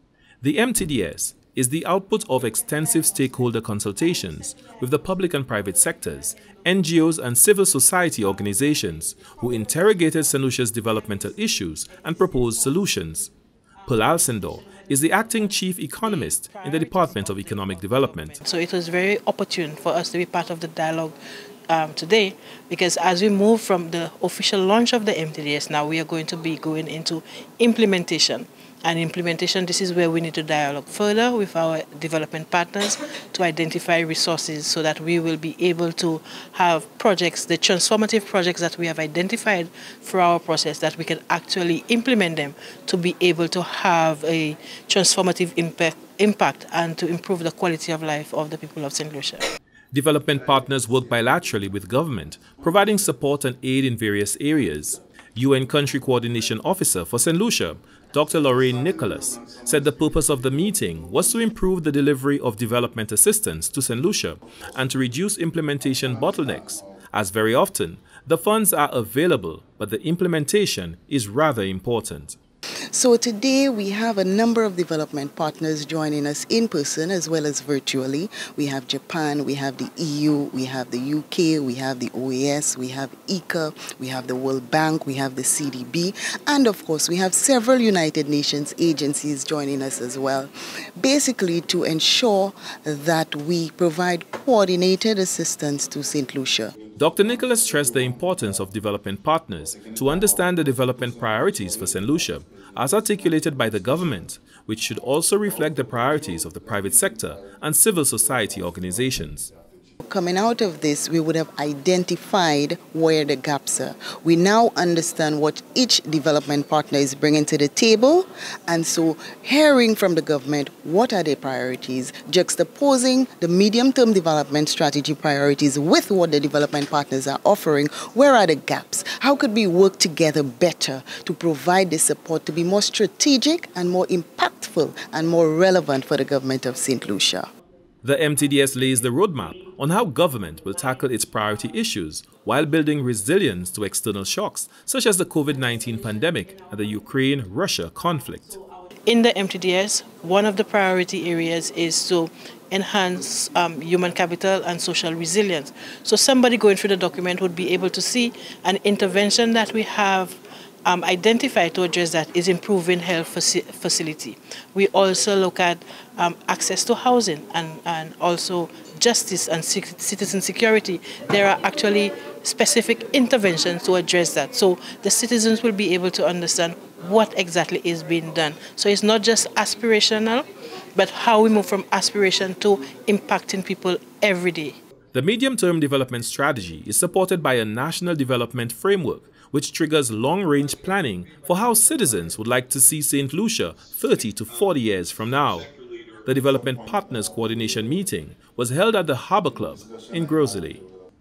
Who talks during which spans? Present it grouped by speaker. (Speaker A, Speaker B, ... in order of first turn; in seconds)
Speaker A: 0.4-13.3, 13.9-18.4, 49.9-72.4, 97.0-109.5, 138.0-148.6, 185.1-195.7, 196.2-200.8
Speaker B: 16.4-49.5, 149.1-184.8
Speaker C: 72.9-96.8, 110.0-137.5